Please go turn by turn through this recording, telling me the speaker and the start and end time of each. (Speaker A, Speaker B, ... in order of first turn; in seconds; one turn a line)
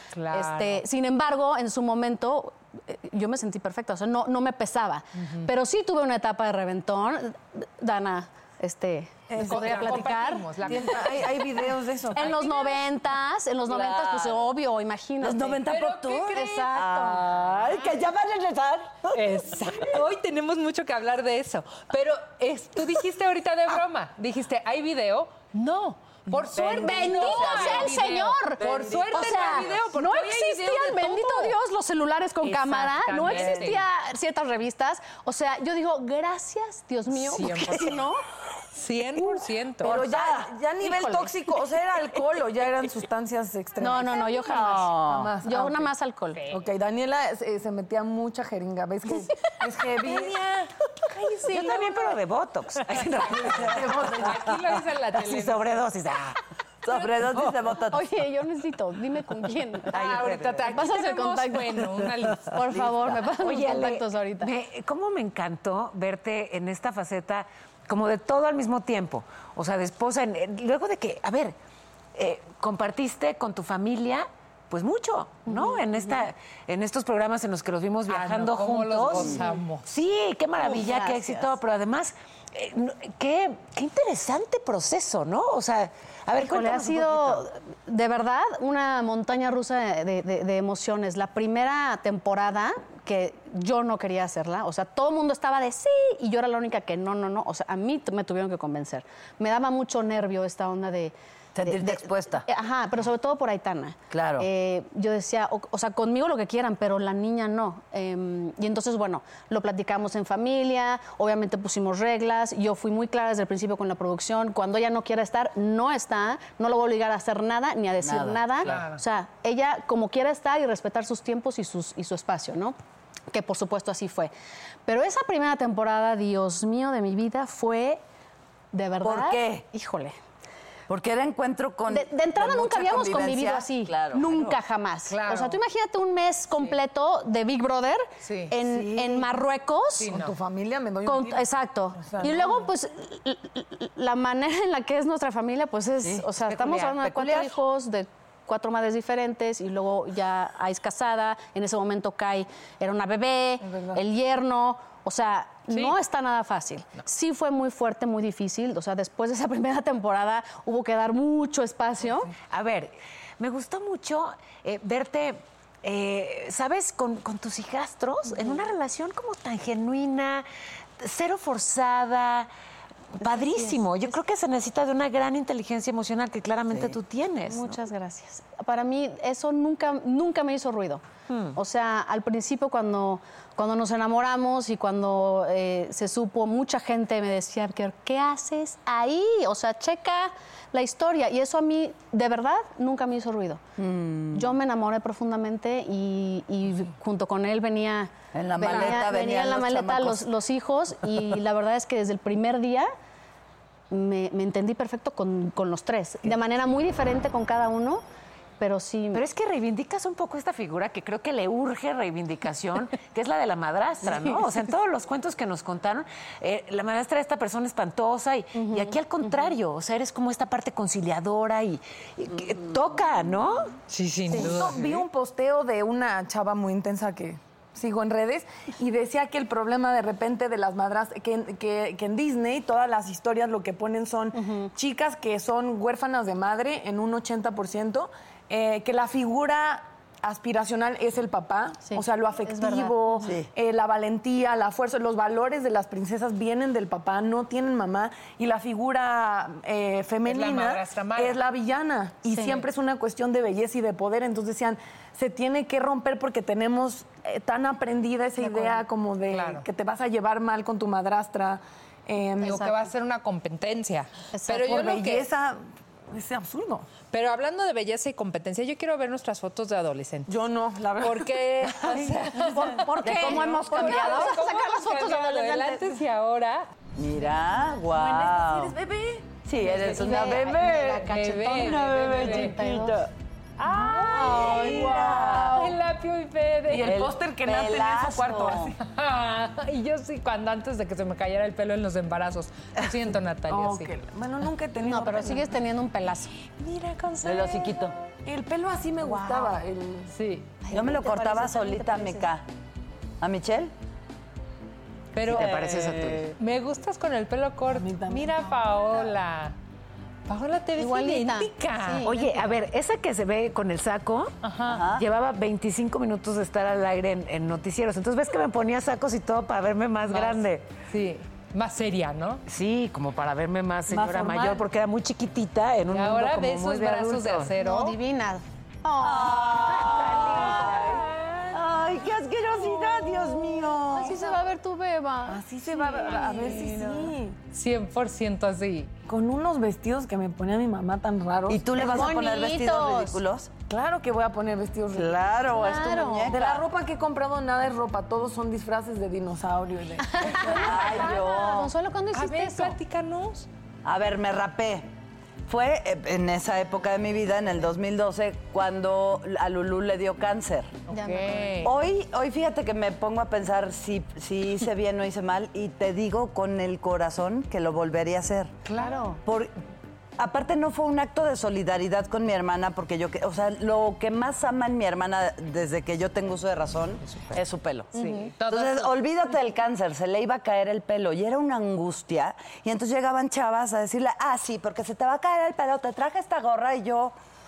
Speaker A: 0.1-0.8
Speaker B: 0.3-10.8
Speaker A: 5.2-5.5
Speaker C: 9.3-9.9
Speaker A: 9.4-11.3
Speaker C: 10.7-12.4
Speaker B: 12.2-15.6
Speaker A: 12.2-12.8
Speaker D: 13.7-14.5
Speaker D: 15.2-19.8
Speaker A: 15.7-16.9
Speaker B: 16.3-17.2
Speaker A: 17.4-17.9
Speaker A: 19.1-31.6
Speaker D: 26.5-29.8
Speaker B: 26.8-37.8
Speaker A: 32.4-33.8
Speaker D: 33.2-33.8
Speaker A: 37.2-38.0
Speaker D: 37.5-38.2
Speaker A: 38.7-40.1
Speaker D: 39.8-41.2
Speaker C: 39.8-45.9
Speaker B: 40.8-41.3
Speaker B: 43.8-46.4
Speaker D: 44.3-45.3
Speaker A: 46.3-46.7
Speaker C: 46.5-50.4
Speaker A: 50.0-52.2
Speaker E: 51.5-54.0
Speaker A: 53.1-55.8
Speaker C: 53.6-54.5
Speaker E: 55.1-56.4
Speaker D: 56.8-58.1
Speaker B: 57.9-60.0
Speaker A: 59.9-62.7
Speaker E: 59.9-60.6
Speaker D: 60.1-60.4
Speaker B: 60.7-64.5
Speaker D: 62.8-63.0
Speaker E: 63.4-71.6
Speaker E: 72.2-87.5
Speaker B: 75.5-76.1
Speaker A: 78.1-79.9
Speaker B: 80.6-81.5
Speaker B: 86.4-122.8
Speaker D: 101.5-102.5
Speaker D: 104.1-104.5
Speaker D: 118.0-118.9
Speaker A: 118.6-119.0
Speaker B: 123.3-124.3
Speaker B: 124.9-128.0
Speaker B: 128.7-130.2
Speaker D: 129.0-129.6
Speaker D: 130.9-134.6
Speaker B: 131.9-140.2
Speaker A: 135.1-135.6
Speaker A: 138.2-138.6
Speaker D: 138.6-139.2
Speaker A: 140.0-140.4
Speaker C: 140.1-141.5
Speaker B: 141.0-162.3
Speaker C: 142.0-142.7
Speaker A: 146.4-147.3
Speaker D: 147.1-147.5
Speaker C: 153.7-154.0
Speaker E: 162.5-170.5
Speaker E: 171.0-172.5
Speaker E: 173.2-177.8
Speaker B: 173.2-173.8
Speaker B: 177.5-181.0
Speaker E: 181.3-181.6
Speaker B: 181.6-193.6
Speaker D: 193.8-194.5
Speaker B: 194.3-202.9
Speaker D: 198.3-200.3
Speaker A: 198.6-199.0
Speaker B: 203.9-208.0
Speaker B: 208.6-209.2
Speaker E: 209.1-223.7
Speaker B: 218.6-219.5
Speaker A: 223.9-225.0
Speaker C: 224.3-262.6
Speaker E: 224.4-224.7
Speaker B: 234.3-234.7
Speaker B: 241.8-243.3
Speaker D: 243.2-243.5
Speaker A: 250.2-251.4
Speaker B: 252.3-252.6
Speaker B: 258.4-258.8
Speaker A: 259.3-259.7
Speaker B: 262.4-262.9
Speaker A: 262.5-265.3
Speaker B: 264.3-264.7
Speaker C: 264.6-265.6
Speaker C: 266.1-266.9
Speaker A: 267.1-270.3
Speaker C: 270.3-272.8
Speaker A: 271.0-276.7
Speaker B: 272.5-275.9
Speaker D: 273.0-274.4
Speaker D: 277.0-278.8
Speaker C: 277.9-280.4
Speaker D: 279.4-283.1
Speaker B: 279.6-283.0
Speaker A: 281.0-282.6
Speaker C: 283.6-285.2
Speaker A: 283.7-284.7
Speaker D: 283.9-285.7
Speaker B: 284.1-285.7
Speaker A: 285.5-287.0
Speaker C: 286.7-288.7
Speaker D: 286.8-288.7
Speaker A: 288.8-293.9
Speaker C: 293.5-295.6
Speaker B: 294.8-296.3
Speaker A: 296.8-297.7
Speaker D: 297.2-297.9
Speaker C: 298.2-300.1
Speaker B: 299.1-299.4
Speaker A: 300.1-300.6
Speaker B: 300.6-302.3
Speaker D: 300.7-302.4
Speaker D: 303.2-303.7
Speaker A: 305.1-305.6
Speaker E: 305.2-306.3
Speaker D: 305.3-306.3
Speaker A: 306.4-309.6
Speaker C: 307.7-309.1
Speaker A: 310.3-312.1
Speaker B: 310.8-312.5
Speaker E: 312.0-320.7
Speaker A: 314.4-314.9
Speaker D: 314.7-315.0
Speaker A: 320.1-322.4
Speaker E: 322.5-327.5
Speaker D: 323.9-324.6
Speaker A: 325.9-328.0
Speaker B: 327.6-330.8
Speaker D: 329.0-334.3
Speaker B: 333.9-337.1
Speaker C: 335.3-337.4
Speaker A: 337.5-338.9
Speaker C: 339.1-342.1
Speaker D: 341.5-343.5
Speaker B: 341.8-343.2
Speaker C: 343.7-345.4
Speaker D: 344.9-346.6
Speaker B: 345.5-346.4
Speaker C: 346.3-350.6
Speaker B: 350.0-352.8
Speaker D: 350.5-351.7
Speaker A: 350.7-351.3
Speaker A: 352.1-353.5
Speaker D: 353.9-354.9
Speaker D: 355.5-360.7
Speaker B: 360.9-361.6
Speaker A: 360.9-361.8
Speaker D: 361.6-368.6
Speaker A: 368.7-369.1
Speaker B: 368.8-369.2
Speaker D: 369.2-369.5
Speaker D: 370.2-387.1
Speaker B: 377.9-378.3
Speaker A: 378.0-379.0